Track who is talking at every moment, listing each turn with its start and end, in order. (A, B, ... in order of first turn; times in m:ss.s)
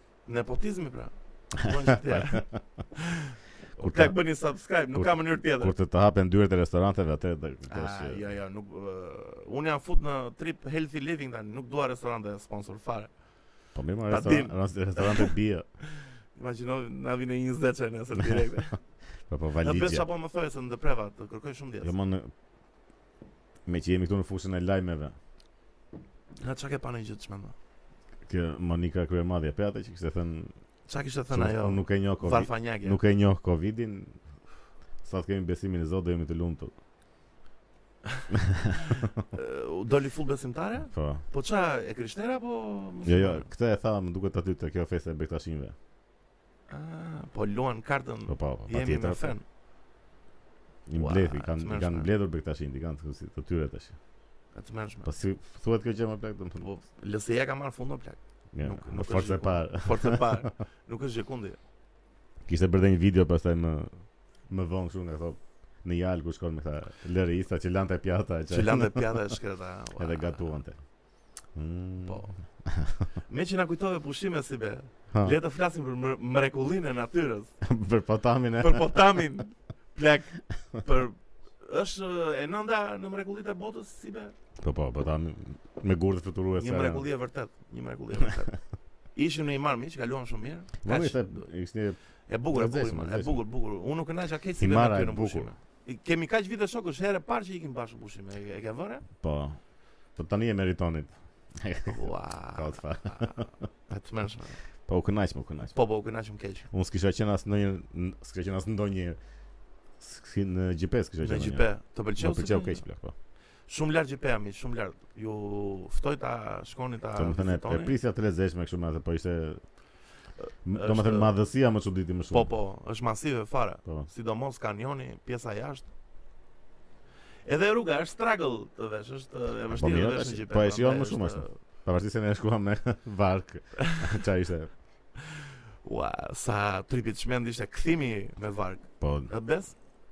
0:00.2-0:05.7 A
0:01.7-0:02.4 B
0:03.8-0:04.2 B
0:04.9-0:08.2 B
0:07.7-0:13.1 A
0:13.7-0:15.6 B
0:14.1-0:15.3 A
0:15.9-0:18.8 A
0:19.3-0:20.0 B
0:19.6-0:21.9 A
0:21.8-0:22.3 B
0:23.6-0:25.1 B
0:26.4-0:27.5 A
0:28.2-0:30.5 B
0:30.9-0:33.0 A
0:31.3-0:34.2 B
0:35.0-0:36.7 B
0:38.3-0:39.2 B
0:39.3-0:43.5 A
0:40.9-0:41.2 B
0:43.0-0:45.7 B
0:46.7-0:49.4 A
0:48.3-0:49.3 B
0:50.9-0:54.0 B
0:51.0-0:52.1 A
0:54.5-0:55.1 A
0:55.0-0:56.6 B
0:56.6-1:01.6 A
0:58.5-1:00.5 B
1:02.5-1:09.4 B
1:08.5-1:10.4 A
1:10.0-1:10.8 B
1:11.5-1:13.0 B
1:12.0-1:12.4 A
1:13.3-1:17.6 A
1:17.6-1:19.2 B
1:18.6-1:24.3 A
1:24.6-1:27.1 B
1:26.6-1:28.6 A
1:29.1-1:31.4 A
1:30.8-1:32.0 B
1:32.3-1:39.0 A
1:32.5-1:33.4 B
1:34.6-1:35.5 B
1:39.2-1:39.6 B
1:40.2-1:43.5 B
1:41.8-1:44.6 A
1:44.9-1:45.7 B
1:45.7-1:46.7 A
1:46.7-1:49.2 B
1:50.0-1:53.1 B
1:51.2-1:52.8 A
1:53.7-1:57.9 A
1:57.2-1:59.6 B
2:00.4-2:01.3 A
2:00.6-2:02.5 B
2:02.3-2:05.9 A
2:07.4-2:11.6 A
2:09.7-2:14.7 B
2:15.3-2:19.8 A
2:19.0-2:19.3 B